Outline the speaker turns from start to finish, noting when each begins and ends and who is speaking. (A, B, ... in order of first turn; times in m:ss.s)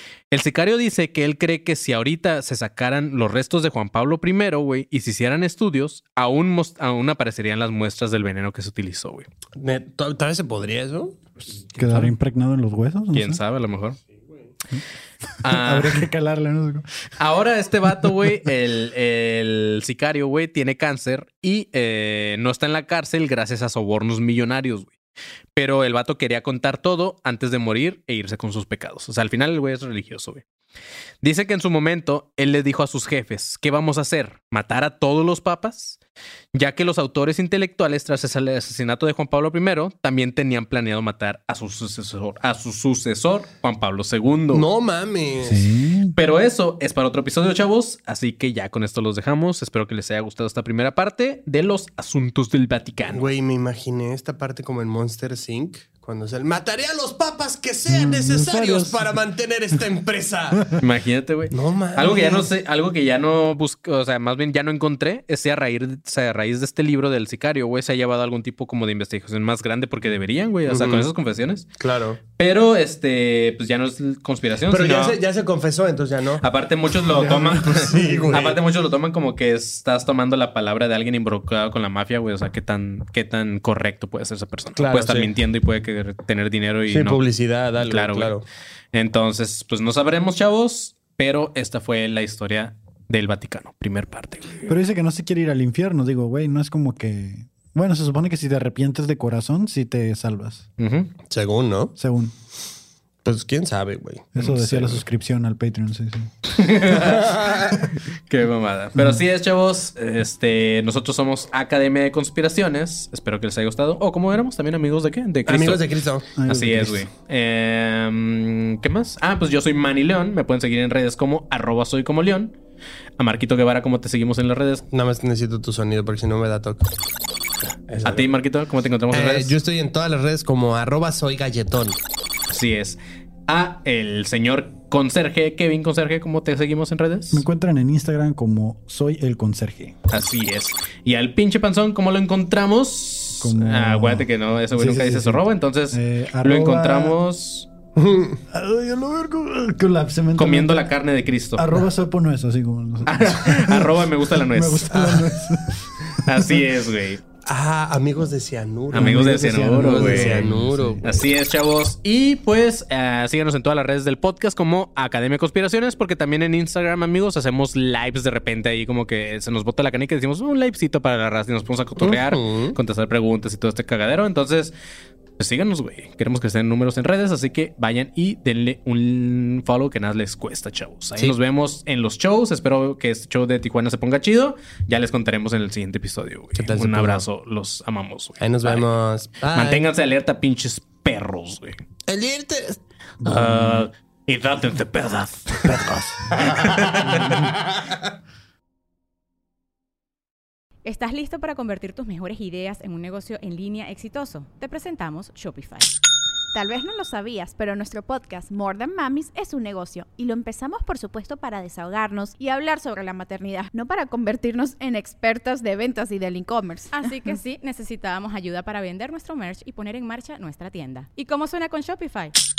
0:00.3-0:09.3 A
0:09.6-0:11.2 B
0:11.7-0:12.1 A
0:11.7-0:13.4 C
0:13.1-0:14.0 A
0:15.3-0:16.8 C
0:15.4-0:16.0 A
0:17.2-0:24.9 A
0:18.0-0:18.3 C
0:25.5-0:30.4 A
0:31.2-0:36.0 A
0:36.5-0:44.6 A
0:44.5-0:45.6 B
0:45.4-0:46.1 C
0:46.1-0:53.3 A
0:53.1-1:00.7 B
0:57.9-0:59.1 C
1:00.8-1:11.7 A
1:01.5-1:02.5 B
1:10.7-1:11.1 B
1:11.8-1:12.2 B
1:12.4-1:15.2 A
1:14.7-1:16.4 B
1:16.4-1:27.2 A
1:17.1-1:18.6 B
1:17.3-1:18.3 C
1:24.8-1:25.3 B
1:26.9-1:28.4 B
1:27.8-1:28.3 A
1:28.9-1:34.7 A
1:34.7-1:40.7 C
1:40.8-1:41.1 A
1:41.3-1:41.9 B
1:42.0-1:42.3 C
1:43.2-1:44.5 B
1:44.3-1:46.3 C
1:44.4-1:45.0 A
1:46.5-1:47.5 A
1:47.0-1:47.8 B
1:48.3-1:55.8 A
1:49.0-1:49.2 C
1:55.5-1:56.3 B
1:56.4-1:57.0 C
1:56.4-2:02.5 A
2:03.2-2:04.8 A
2:04.9-2:06.9 B
2:07.9-2:08.3 B
2:08.0-2:09.5 A
2:09.1-2:12.0 B
2:12.5-2:17.4 A
2:17.3-2:20.0 C
2:20.1-2:27.7 A
2:23.4-2:27.2 C
2:28.0-2:28.4 B
2:28.5-2:30.9 C
2:30.4-2:31.8 A
2:31.6-2:36.6 C
2:33.0-2:35.0 A
2:34.9-2:35.3 B
2:36.1-2:37.2 A
2:37.4-2:41.0 B
2:38.9-2:41.0 C
2:38.9-2:40.5 A
2:41.0-2:54.7 A
2:52.0-2:52.8 B
2:55.4-3:08.8 A
3:06.6-3:07.2 B
3:08.4-3:09.9 B
3:09.5-3:11.8 A
3:12.1-3:12.8 B
3:13.2-3:13.8 C
3:13.2-3:17.4 A
3:15.7-3:16.3 C
3:16.4-3:17.0 B
3:20.8-3:25.9 D
3:26.5-3:37.1 E
3:36.9-3:42.3 D